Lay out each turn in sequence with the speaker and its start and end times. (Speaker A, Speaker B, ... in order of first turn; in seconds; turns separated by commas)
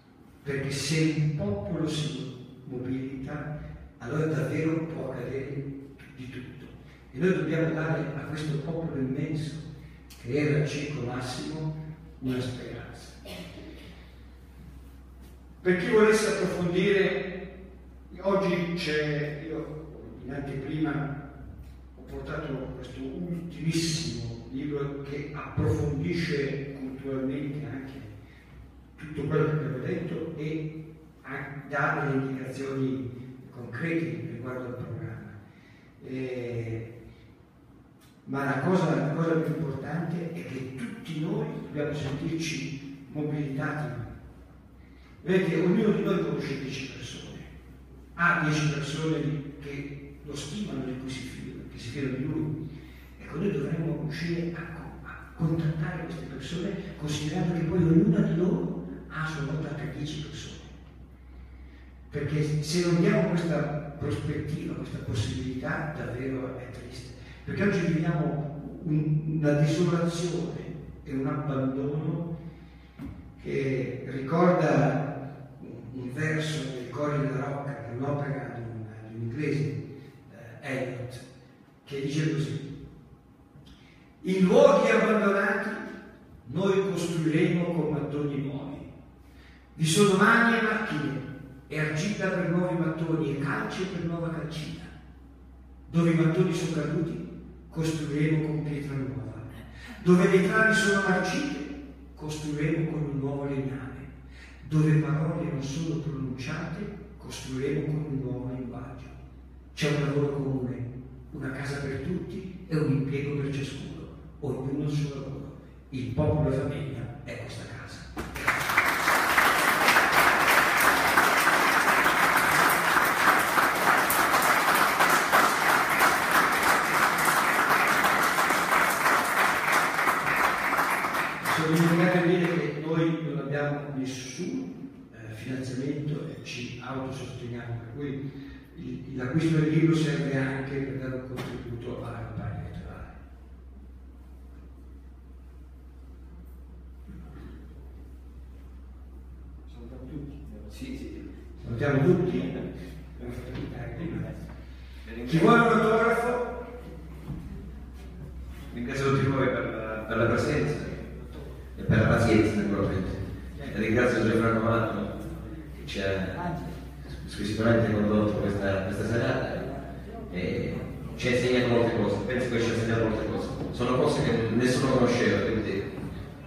Speaker A: 0.4-9.7, Speaker A: 10.2-13.3, Speaker A: 15.6-17.4, Speaker A: 18.1-21.1, Speaker A: 21.9-28.1, Speaker A: 28.9-35.4, Speaker A: 36.0-36.9, Speaker A: 38.2-44.0, Speaker A: 45.2-47.5, Speaker A: 48.1-52.5, Speaker A: 53.1-60.8, Speaker A: 62.1-72.3, Speaker A: 73.4-81.2, Speaker A: 81.8-82.8, Speaker A: 84.2-85.9, Speaker A: 86.4-88.9, Speaker A: 89.7-94.9, Speaker A: 95.9-104.1, Speaker A: 104.6-109.1, Speaker A: 109.7-118.7, Speaker A: 131.4-138.2, Speaker A: 138.7-143.2, Speaker A: 149.7-150.7, Speaker B: 150.7-151.2, Speaker A: 151.6-154.4, Speaker B: 155.1-155.6, Speaker A: 155.2-156.5, Speaker B: 158.7-161.0, Speaker B: 161.7-165.1, Speaker B: 165.8-166.4, Speaker A: 166.3-166.7, Speaker B: 167.1-169.7, Speaker B: 170.3-175.9